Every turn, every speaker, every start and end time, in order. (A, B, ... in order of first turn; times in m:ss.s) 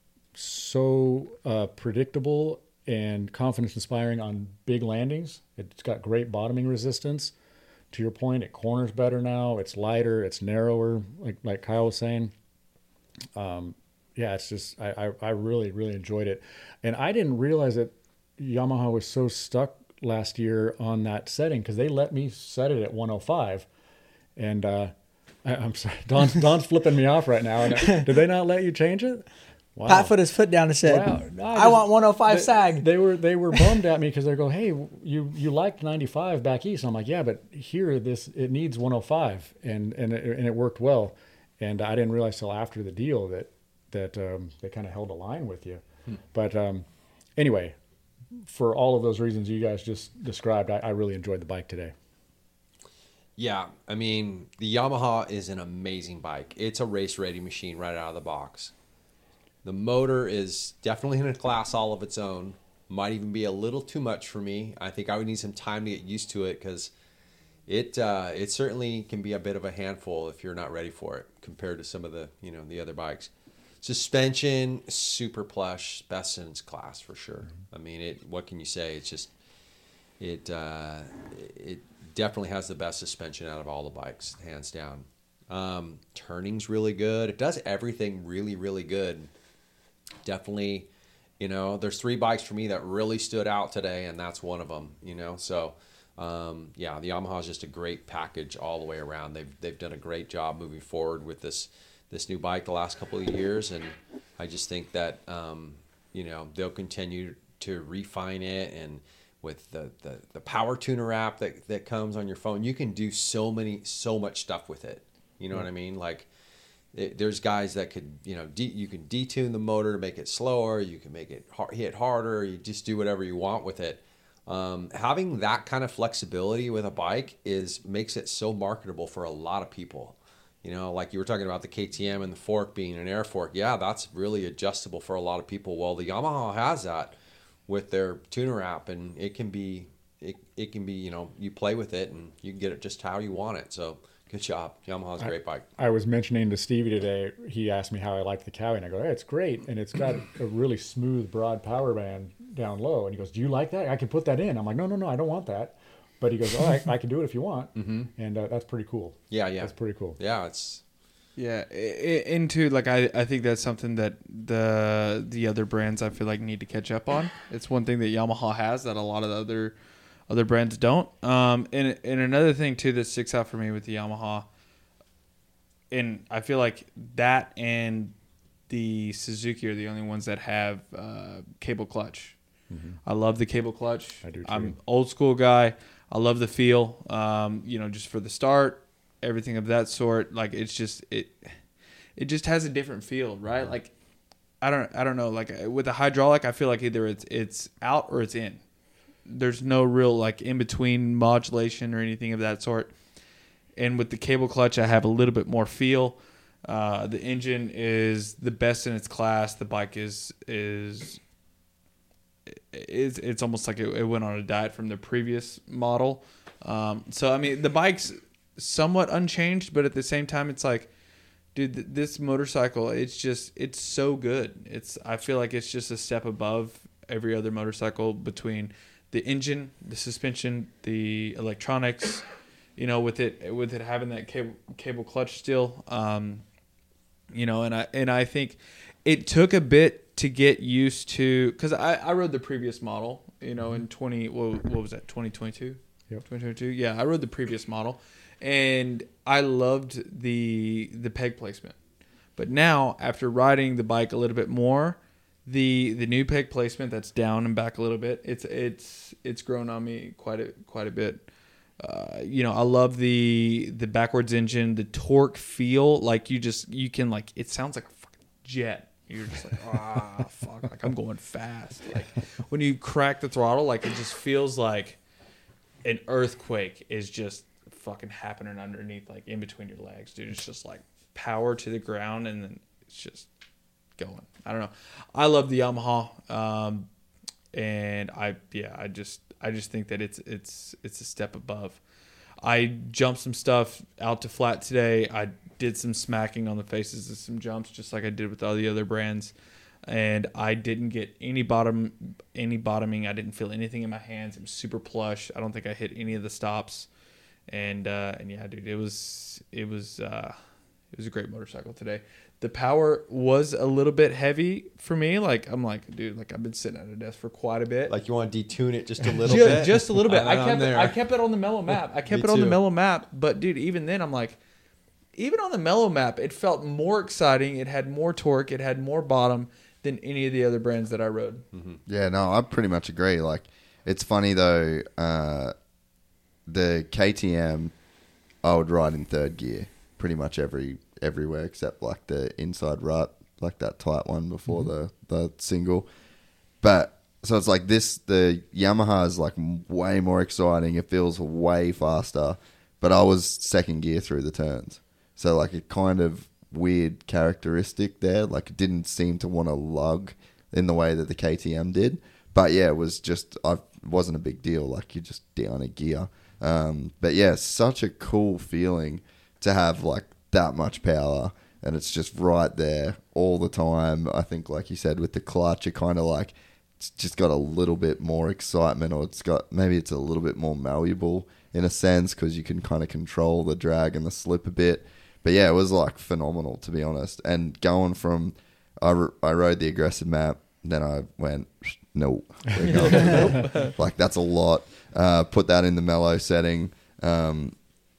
0:00.3-0:07.3 A
0:07.9-0:12.3 A
0:13.4-0:23.7 A
0:24.4-0:30.1 A
0:29.9-0:32.9 B
0:30.8-0:46.8 A
0:47.4-0:47.8 A
0:48.4-0:51.9 A
0:53.4-0:58.7 C
0:59.6-1:06.9 C
1:07.7-1:13.3 C
1:13.8-1:19.3 C
1:20.2-1:29.3 C
1:30.2-1:30.9 C
1:31.4-1:56.3 C
1:56.9-2:17.1 C
2:17.7-2:25.6 C
2:25.2-2:40.2 A
2:37.7-2:38.1 C
2:39.3-2:40.8 C
2:41.4-2:49.7 D
2:50.3-2:54.4 D
2:55.9-2:58.1 D
2:58.7-3:02.4 D
3:02.7-3:03.0 A
3:03.0-3:11.6 D
3:04.2-3:04.8 A
3:12.2-3:13.9 D
3:14.6-3:18.6 D
3:19.2-3:22.9 D
3:23.8-3:31.2 D
3:32.5-3:40.9 D
3:41.5-3:52.2 D
3:52.8-3:56.4 D
3:57.3-4:11.7 D
4:12.4-4:21.2 D
4:21.8-4:35.0 D
4:35.8-4:43.3 D
4:44.0-4:46.9 D
4:47.5-4:51.8 D
4:52.4-4:59.3 D
4:59.8-5:06.9 D
5:07.5-5:10.3 D
5:10.9-5:17.9 D
5:17.9-5:21.0 C
5:19.2-5:24.4 D
5:22.1-5:22.6 C
5:25.2-5:31.4 D
5:31.5-5:31.8 C
5:31.9-5:35.5 E
5:36.5-5:37.7 E
5:38.4-5:45.9 E
5:46.6-6:37.5 E
6:32.6-6:33.8 D